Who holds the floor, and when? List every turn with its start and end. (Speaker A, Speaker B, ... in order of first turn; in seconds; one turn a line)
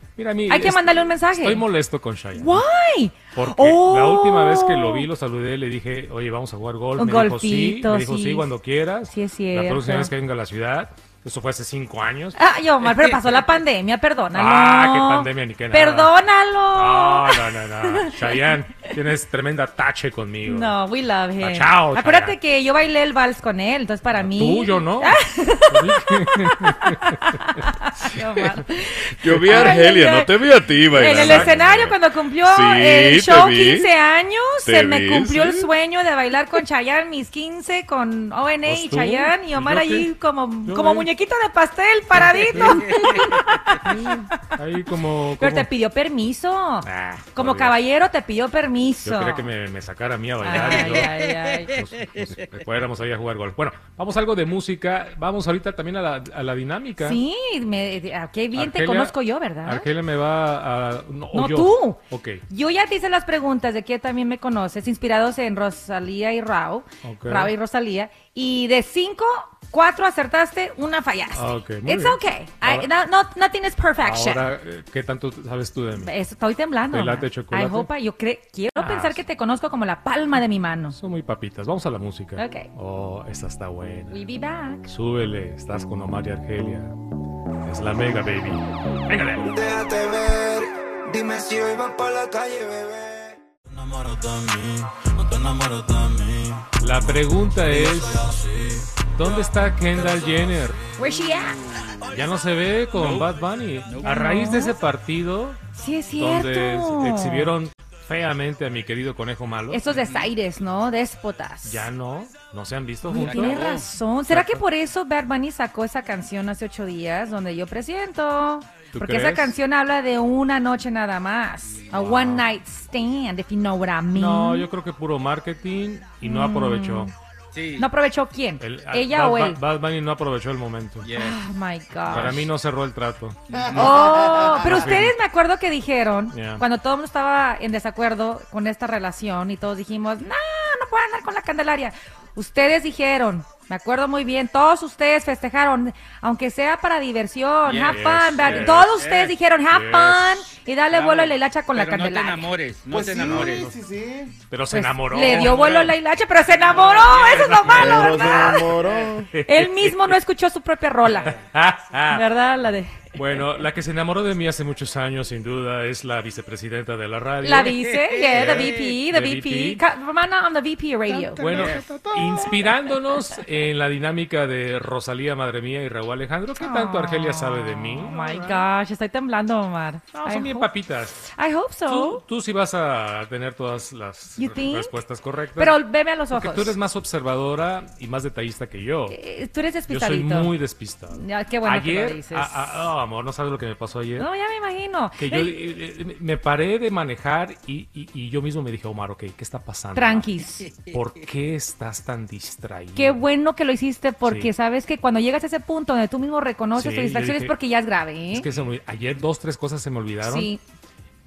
Speaker A: 0.2-2.7
Speaker B: 0.5-1.6
Speaker B: 2.4-5.1
Speaker A: 3.3-12.4
Speaker B: 7.0-8.5
Speaker B: 9.1-10.1
Speaker B: 12.4-18.1
Speaker A: 14.3-16.1
Speaker A: 16.7-20.8
Speaker B: 20.4-30.3
Speaker A: 21.4-22.4
Speaker A: 24.1-27.6
Speaker C: 28.2-28.5
Speaker C: 29.2-33.9
Speaker A: 29.3-29.8
Speaker B: 30.9-43.9
Speaker A: 30.9-31.6
Speaker C: 34.6-35.7
Speaker A: 38.6-40.1
Speaker A: 40.7-41.1
Speaker A: 42.2-45.7
Speaker B: 45.4-49.5
Speaker A: 46.8-47.8
Speaker A: 49.0-57.2
Speaker B: 50.4-51.7
Speaker B: 57.0-59.9
Speaker A: 58.5-62.4
Speaker B: 61.3-62.0
Speaker B: 62.5-74.4
Speaker A: 67.0-67.5
Speaker A: 71.3-72.9
Speaker A: 74.0-76.1
Speaker B: 76.0-81.0
Speaker A: 76.9-77.9
Speaker A: 78.8-79.2
Speaker A: 80.9-84.2
Speaker B: 82.4-82.7
Speaker B: 84.1-84.9
Speaker A: 84.9-86.9
Speaker A: 87.6-89.6
Speaker D: 89.6-93.2
Speaker A: 96.8-98.3
Speaker A: 99.1-100.8
Speaker B: 101.0-101.6
Speaker A: 102.1-105.6
Speaker E: 102.9-103.3
Speaker E: 103.8-104.2
Speaker B: 104.0-104.8
Speaker B: 105.7-107.5
Speaker A: 106.2-109.8
Speaker B: 109.7-111.9
Speaker E: 110.0-110.3
Speaker A: 111.7-113.7
Speaker B: 113.1-124.7
Speaker E: 113.2-113.9
Speaker A: 114.3-114.6
Speaker A: 118.9-119.5
Speaker A: 122.0-122.5
Speaker A: 124.1-127.1
Speaker B: 126.2-127.1
Speaker E: 127.5-127.9
Speaker B: 127.8-129.6
Speaker A: 128.6-131.1
Speaker E: 131.0-131.4
Speaker B: 131.1-132.5
Speaker A: 132.1-135.1
Speaker E: 133.5-134.2
Speaker B: 133.7-152.5
Speaker A: 136.3-136.6
Speaker E: 147.7-149.4
Speaker A: 147.9-149.0
Speaker A: 149.7-150.5
Speaker E: 150.9-153.7
Speaker F: 152.9-154.3
Speaker A: 153.3-153.7
Speaker A: 154.5-155.7
Speaker B: 154.7-158.8
Speaker E: 155.3-155.9
Speaker E: 156.6-157.9
Speaker A: 157.3-160.2
Speaker F: 157.8-159.3
Speaker B: 159.4-161.4
Speaker A: 161.1-162.2
Speaker B: 162.1-163.1
Speaker A: 163.1-169.8
Speaker B: 167.4-172.6
Speaker A: 171.1-178.7
Speaker F: 171.4-171.7
Speaker E: 171.5-171.8
Speaker B: 176.6-180.7
Speaker A: 180.1-181.3
Speaker B: 181.4-182.2
Speaker A: 181.9-189.2
Speaker B: 184.4-184.9
Speaker B: 185.6-186.8
Speaker B: 189.1-190.6
Speaker A: 189.9-194.3
Speaker B: 191.1-192.7
Speaker B: 194.2-195.6
Speaker A: 195.2-200.3
Speaker B: 199.9-200.7
Speaker A: 200.8-203.2
Speaker B: 203.0-208.5
Speaker A: 204.2-204.5
Speaker A: 206.8-207.5
Speaker A: 208.3-210.5
Speaker B: 210.2-210.6